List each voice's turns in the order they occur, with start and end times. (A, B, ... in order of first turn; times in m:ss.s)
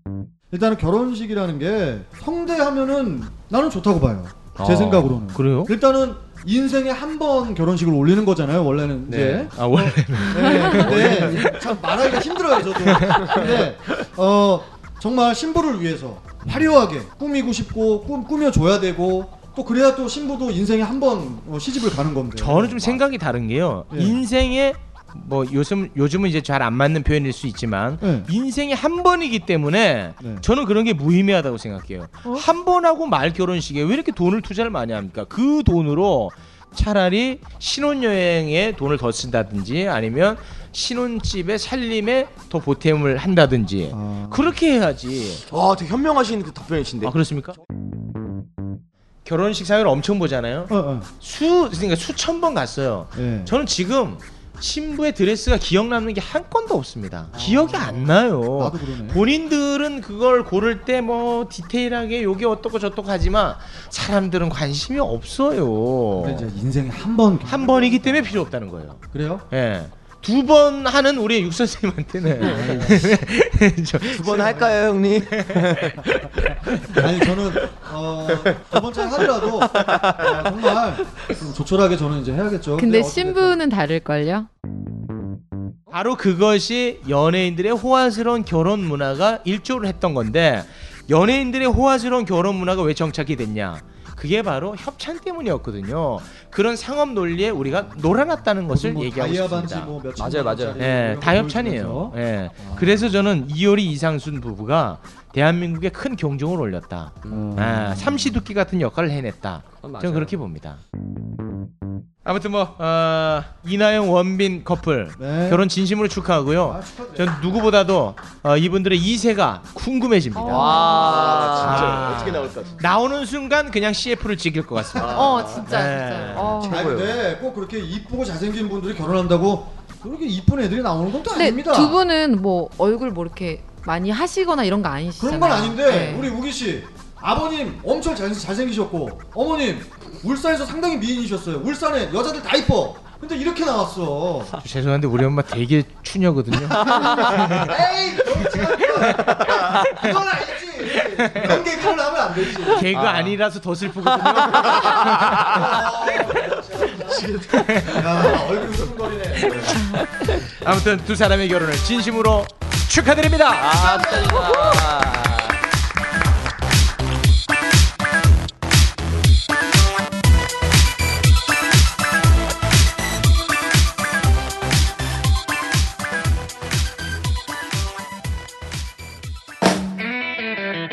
0:00.5-0:23.0 A
0:04.6-0:05.7 B
0:09.1-0:11.7 B
0:10.4-0:10.6 C
0:10.8-0:11.5 D
0:12.8-0:13.6 B
0:22.4-0:45.4 B
0:23.9-0:24.2 A
0:28.0-0:28.3 A
0:30.2-0:30.4 A
0:43.9-0:44.5 A
0:45.5-0:47.2 E
0:47.0-0:47.6 B
0:49.2-1:06.5 B
0:50.7-0:51.1 A
0:53.2-0:53.5 A
0:57.3-0:59.2 A
1:06.2-1:08.4 A
1:07.4-1:14.3 B
1:09.1-1:09.4 A
1:12.4-1:13.2 A
1:14.0-1:16.0 E
1:14.1-1:15.0 A
1:15.3-1:17.1 B
1:16.9-1:23.6 A
1:18.4-1:18.8 E
1:19.6-1:20.5 E
1:22.8-1:24.5 C
1:25.9-1:40.0 B
1:37.7-1:38.1 A
1:38.6-1:43.2 A
1:40.2-1:40.8 D
1:40.8-1:50.8 B
1:47.2-1:47.8 D
1:47.3-1:48.4 A
1:49.8-1:50.4 D
1:52.2-2:06.7 B
1:55.2-1:55.6 A
1:56.6-1:57.4 A
2:00.3-2:01.6 C
2:00.4-2:02.2 D
2:00.8-2:02.8 E
2:05.0-2:05.7 E
2:05.1-2:06.9 C
2:06.4-2:07.2 D
2:06.6-2:12.0 A
2:11.3-2:16.3 C
2:15.2-2:24.6 A
2:24.6-2:27.7 B
2:26.8-2:33.0 A
2:28.5-2:30.1 B
2:30.9-2:31.6 B
2:32.7-2:35.9 B
2:32.9-2:33.3 D
2:34.1-2:39.8 A
2:37.0-2:38.0 E
2:37.5-2:38.1 B
2:39.5-2:44.1 B
2:43.6-2:45.6 D
2:43.8-2:44.5 A